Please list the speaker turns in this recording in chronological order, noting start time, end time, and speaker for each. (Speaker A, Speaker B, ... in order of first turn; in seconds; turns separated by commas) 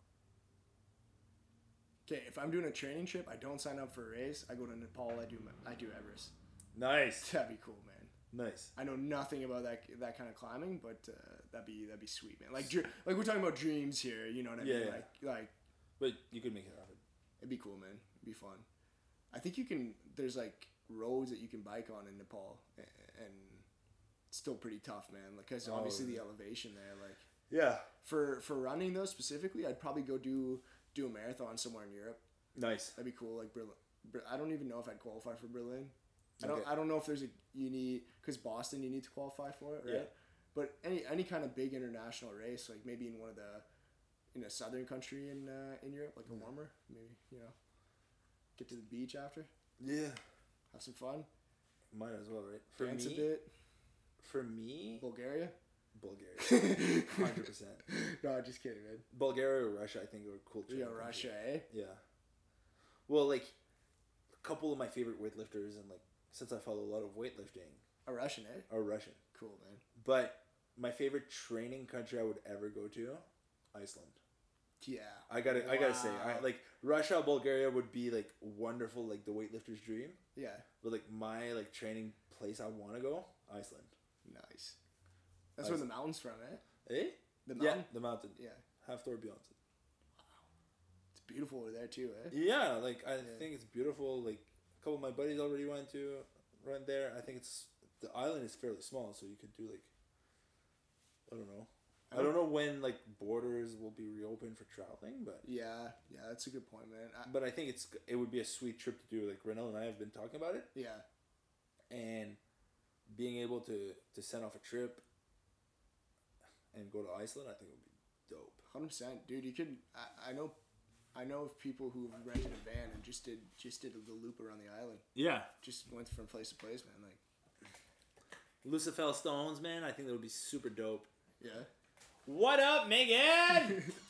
Speaker A: 2.0-6.3, Speaker B: 6.7-7.3, Speaker A: 7.2-8.1, Speaker B: 8.3-8.7, Speaker A: 8.8-15.5, Speaker B: 14.6-15.1, Speaker B: 16.0-17.0, Speaker A: 17.4-18.6, Speaker A: 19.3-23.6, Speaker A: 24.3-27.2, Speaker B: 25.6-26.2, Speaker B: 27.5-27.9, Speaker A: 28.0-32.2, Speaker B: 32.5-33.0, Speaker A: 33.0-43.6, Speaker B: 36.4-36.7, Speaker B: 39.8-40.1, Speaker A: 44.3-47.5, Speaker A: 48.5-49.5, Speaker B: 49.8-50.2, Speaker A: 50.7-51.3, Speaker B: 51.9-53.4, Speaker A: 52.8-53.5, Speaker B: 54.2-55.0, Speaker A: 55.0-55.5, Speaker B: 55.9-57.8, Speaker A: 56.4-57.4, Speaker A: 57.9-59.0, Speaker B: 59.1-62.0, Speaker A: 60.7-61.6, Speaker B: 63.1-63.5, Speaker B: 64.4-67.8, Speaker A: 68.0-68.7, Speaker B: 68.7-69.2, Speaker A: 69.3-69.8, Speaker B: 70.0-74.2, Speaker A: 74.8-76.5, Speaker B: 75.3-80.2, Speaker A: 80.3-80.7, Speaker B: 80.8-83.9, Speaker A: 84.2-84.8, Speaker A: 85.5-86.6, Speaker B: 85.6-85.8, Speaker B: 86.8-89.5, Speaker A: 87.5-88.6, Speaker A: 91.1-92.3, Speaker B: 92.3-99.9, Speaker B: 101.3-105.5, Speaker A: 102.1-102.4, Speaker A: 105.4-107.3, Speaker B: 107.2-110.7, Speaker A: 110.7-111.0, Speaker B: 111.9-112.4, Speaker B: 113.1-115.0, Speaker B: 116.7-118.6, Speaker A: 118.7-120.5, Speaker A: 121.1-125.1, Speaker B: 125.1-125.5, Speaker A: 125.6-127.2, Speaker B: 128.6-131.1, Speaker A: 131.4-131.7, Speaker B: 132.2-133.9